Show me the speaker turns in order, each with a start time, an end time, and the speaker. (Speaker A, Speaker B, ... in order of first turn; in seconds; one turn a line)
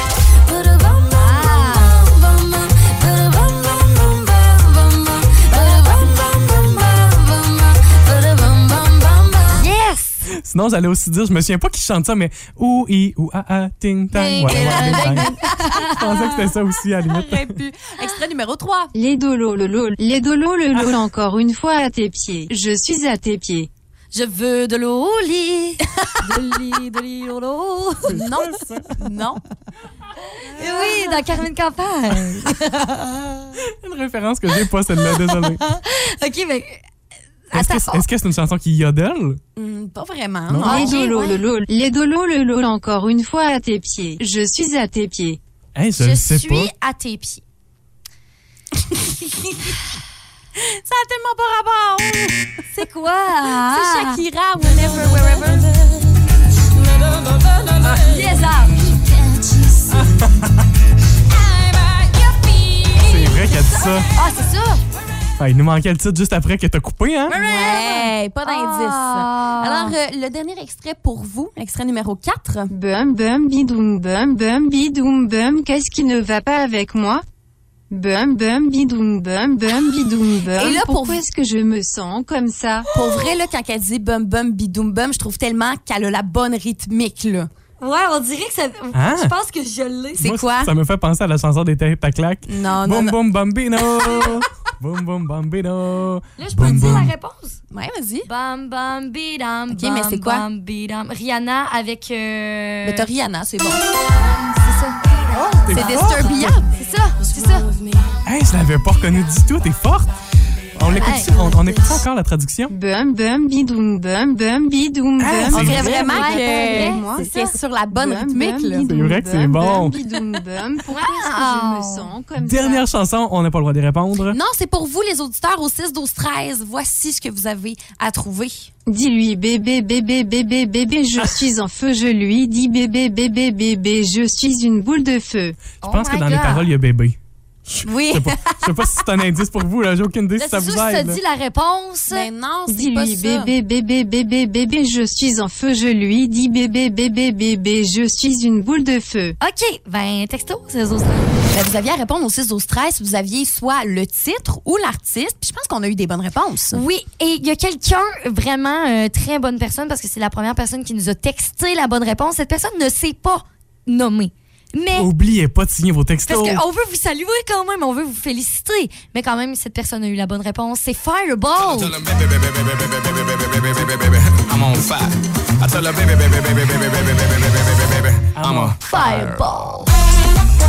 Speaker A: 0.4-9.6
Speaker B: 1.1-2.1
Speaker B: 9.5-10.2
Speaker C: 10.3-17.6
Speaker B: 14.1-16.2
Speaker A: 14.4-18.9
Speaker D: 18.9-23.7
Speaker B: 24.1-28.2
Speaker C: 28.1-29.0
Speaker A: 28.1-29.4
Speaker B: 30.3-33.6
Speaker C: 33.6-35.6
Speaker B: 34.9-36.8
Speaker B: 37.5-38.1
Speaker C: 37.5-39.4
Speaker A: 39.6-41.3
Speaker C: 40.5-40.9
Speaker D: 40.6-45.4
Speaker B: 40.6-41.4
Speaker C: 45.8-46.7
Speaker B: 46.0-47.4
Speaker A: 48.9-49.8
Speaker A: 50.6-52.7
Speaker B: 52.8-54.2
Speaker A: 53.6-56.2
Speaker A: 57.5-58.0
Speaker B: 58.0-58.8
Speaker A: 58.8-60.1
Speaker C: 60.2-60.6
Speaker A: 61.3-64.1
Speaker C: 63.0-64.1
Speaker B: 64.2-64.8
Speaker C: 65.4-67.4
Speaker B: 67.3-70.0
Speaker A: 67.3-72.7
Speaker D: 72.7-77.2
Speaker D: 77.9-82.9
Speaker A: 80.5-81.2
Speaker A: 82.9-87.5
Speaker B: 83.0-83.3
Speaker B: 87.8-90.3
Speaker C: 88.9-89.3
Speaker A: 90.2-90.7
Speaker C: 90.2-97.1
Speaker A: 92.5-93.2
Speaker B: 96.4-97.6
Speaker A: 96.6-97.1
Speaker A: 97.7-98.3
Speaker B: 98.3-103.1
Speaker A: 99.7-100.5
Speaker A: 102.8-103.9
Speaker B: 104.6-104.9
Speaker C: 105.3-106.5
Speaker A: 105.7-106.7
Speaker B: 105.7-106.1
Speaker B: 106.7-107.7
Speaker C: 108.3-110.1
Speaker C: 110.8-112.7
Speaker B: 110.9-111.6
Speaker D: 112.7-117.3
Speaker C: 115.2-116.1
Speaker A: 115.5-118.9
Speaker B: 115.8-117.6
Speaker D: 117.9-122.8
Speaker C: 118.8-120.0
Speaker B: 120.9-122.1
Speaker C: 122.4-124.4
Speaker A: 124.3-128.7
Speaker D: 128.9-135.6
Speaker C: 131.2-131.4
Speaker B: 135.8-136.7
Speaker C: 135.8-141.2
Speaker A: 137.8-139.0
Speaker B: 140.4-142.3
Speaker A: 142.1-143.5
Speaker D: 142.7-149.4
Speaker B: 149.4-151.3
Speaker A: 151.5-156.8
Speaker B: 156.7-165.1
Speaker C: 164.9-166.6
Speaker B: 166.3-172.0
Speaker E: 171.6-179.6
Speaker C: 178.4-178.8
Speaker B: 178.8-179.9